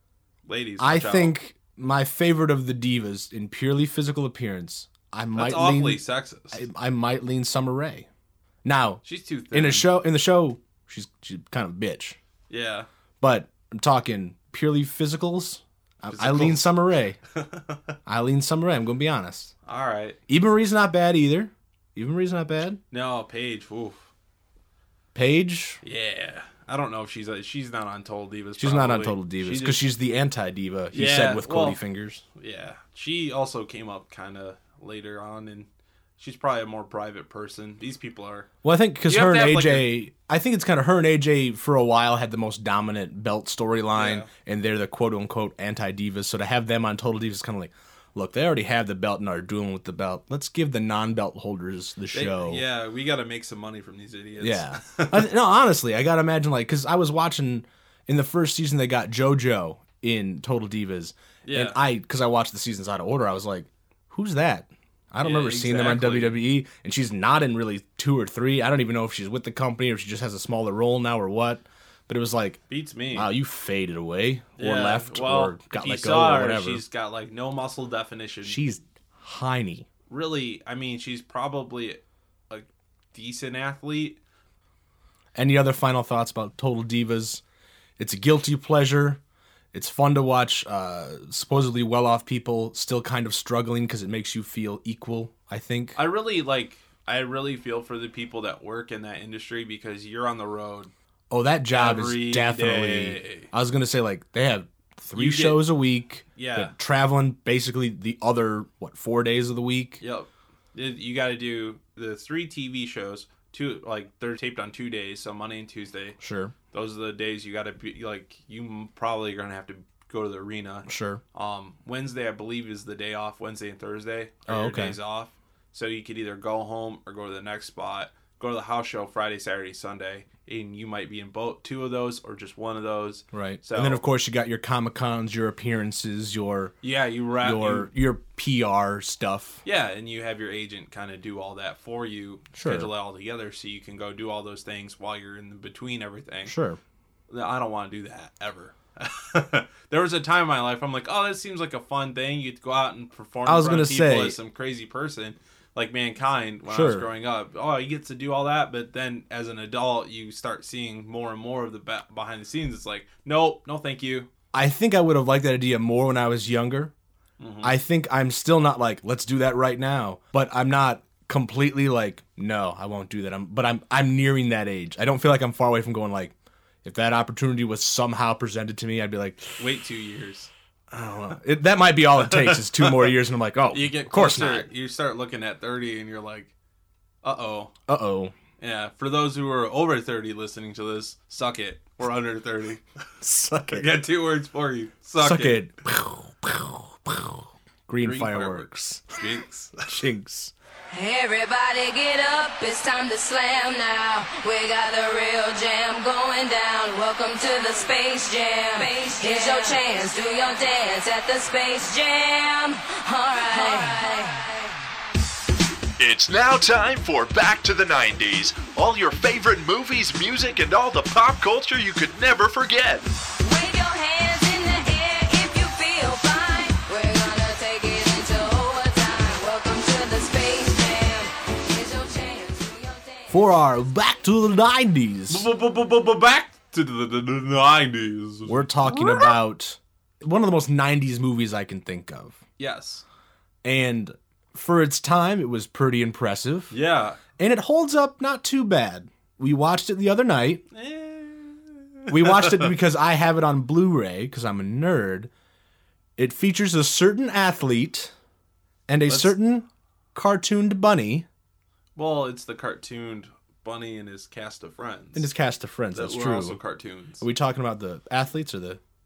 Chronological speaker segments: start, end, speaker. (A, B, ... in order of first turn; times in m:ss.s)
0:00.4-0:01.4 A
0:00.8-0:08.1 B
0:05.4-0:06.6 A
0:08.6-0:12.2 B
0:09.0-0:09.9 A
0:12.5-0:12.9 A
0:13.2-0:17.2 B
0:16.1-0:16.7 A
0:17.3-0:17.8 A
0:18.0-0:19.5 B
0:19.6-0:20.2 A
0:20.3-0:22.8 B
0:22.9-0:24.1 A
0:25.1-0:25.8 B
0:25.8-0:29.8 A
0:28.6-0:32.2 B
0:30.9-0:31.8 A
0:32.4-0:38.5 A
0:38.6-0:52.6 B
0:39.1-0:39.9 A
0:43.9-0:44.3 A
0:52.1-0:55.3 A
0:54.4-1:12.6 B
1:01.4-1:01.8 A
1:05.2-1:06.4 A
1:12.7-1:13.3 A
1:13.1-1:16.8 B
1:14.6-1:18.6 A
1:18.4-1:19.9 B
1:20.1-1:24.2 A
1:25.3-1:27.4 B
1:28.0-1:29.2 B
1:29.7-1:36.0 B
1:35.9-1:40.9 A
1:41.3-1:50.0 B
1:41.7-1:43.5 A
1:45.1-1:45.6 A
1:46.4-1:46.7 A
1:50.0-1:56.2 A
1:56.2-1:56.5 B
1:56.7-2:14.0 A
2:00.8-2:01.2 B
2:04.5-2:05.0 B
2:13.3-2:16.8 B
2:16.8-2:17.9 A
2:17.4-2:19.6 B
2:19.6-2:26.5 A
2:22.5-2:22.9 B
2:26.4-2:26.8 B
2:27.3-2:44.3 A
2:33.4-2:34.4 B
2:36.7-2:37.0 B
2:44.5-2:46.9 B
2:47.4-2:47.8 A
2:47.6-2:59.6 B
2:59.6-3:00.5 A
3:00.9-3:04.7 B
3:02.2-3:03.1 A
3:03.7-3:06.5 A
3:07.2-3:07.7 A
3:07.9-3:08.3 B
3:08.6-3:12.8 A
3:13.2-3:13.9 B
3:13.7-3:15.6 A
3:15.2-3:19.0 B
3:18.0-3:19.9 A
3:19.8-3:20.5 B
3:20.9-3:34.6 C
3:36.0-3:43.1 D
3:43.4-3:53.5 C
3:53.3-3:55.5 B
3:55.3-3:59.3 A
3:58.5-4:02.4 B
4:02.6-4:03.0 A
4:03.6-4:06.8 B
4:06.7-4:07.2 A
4:07.4-4:10.6 B
4:10.7-4:12.7 A
4:12.1-4:15.3 B
4:16.2-4:18.1 B
4:18.9-4:21.2 B
4:19.1-4:19.3 A
4:22.0-4:25.3 A
4:25.1-4:26.6 B
4:25.9-4:27.2 A
4:27.2-4:28.8 B